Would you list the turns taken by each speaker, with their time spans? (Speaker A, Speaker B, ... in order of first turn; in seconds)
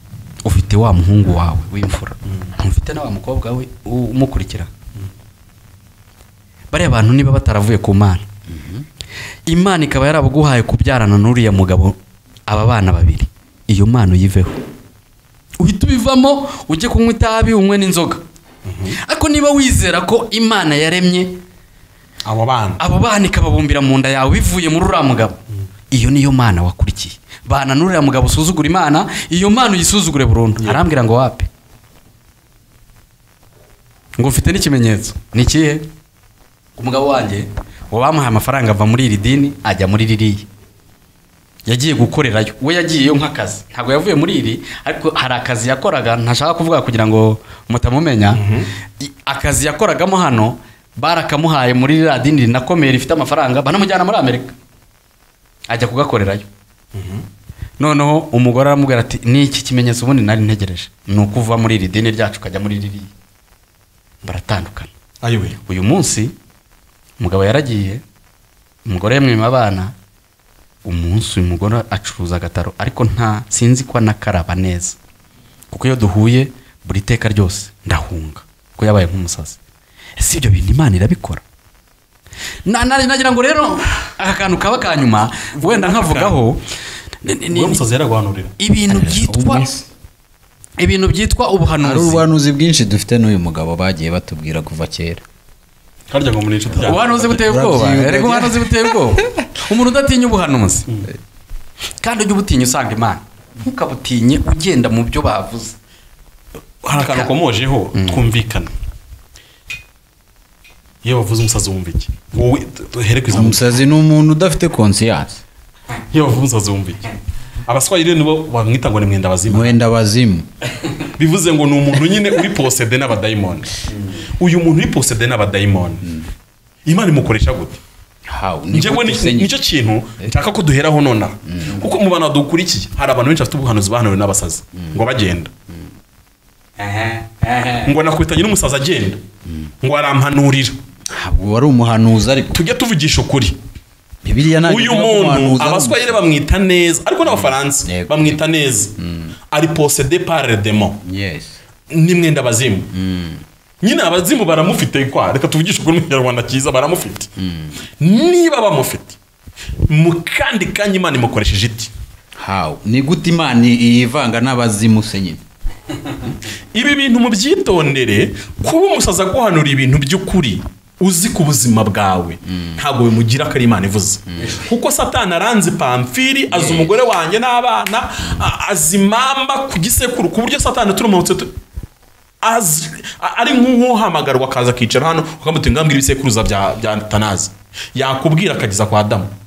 Speaker A: 0.4-4.7, 6.7-8.3, 9.5-11.9, 12.5-14.6, 15.6-18.2, 19.0-21.4, 22.8-25.4, 25.9-31.5, 34.2-35.9, 36.8-40.5, 41.6-48.4, 49.0-54.5, 55.7-56.5, 57.8-63.1, 64.2-64.9, 65.6-66.3, 67.2-68.0, 68.8-69.9, 70.8-75.0, 75.7-79.6, 80.2-81.4, 82.7-86.6, 87.2-87.8, 88.6-89.7, 90.8-92.2, 96.8-100.9, 102.0-105.7, 106.9-107.3, 136.8-137.9
Speaker B: 8.5-8.8, 88.9-89.8, 91.8-95.2, 97.3-99.5, 113.3-115.4, 119.5-120.5, 128.3-129.5, 131.5-131.8, 141.1-142.6, 144.2-146.2, 147.4-148.4, 149.0-149.3, 151.0-151.6, 152.9-153.4, 157.4-157.8, 162.4-165.4, 176.5-176.9
Speaker C: 18.6-19.0, 22.2-22.8, 48.3-48.7, 56.9-57.2, 65.2-65.6, 85.5-86.4, 87.5-88.5, 96.1-97.4, 106.8-108.7, 111.0-113.7, 116.1-117.1, 117.7-119.7, 121.0-126.1, 126.8-127.8, 128.7-135.5, 137.8-139.2, 139.8-140.8, 142.5-143.6, 144.6-148.9, 149.5-151.0, 151.9-152.9, 153.8-157.3, 158.0-159.2, 159.9-161.9, 166.7-181.5, 182.4-189.3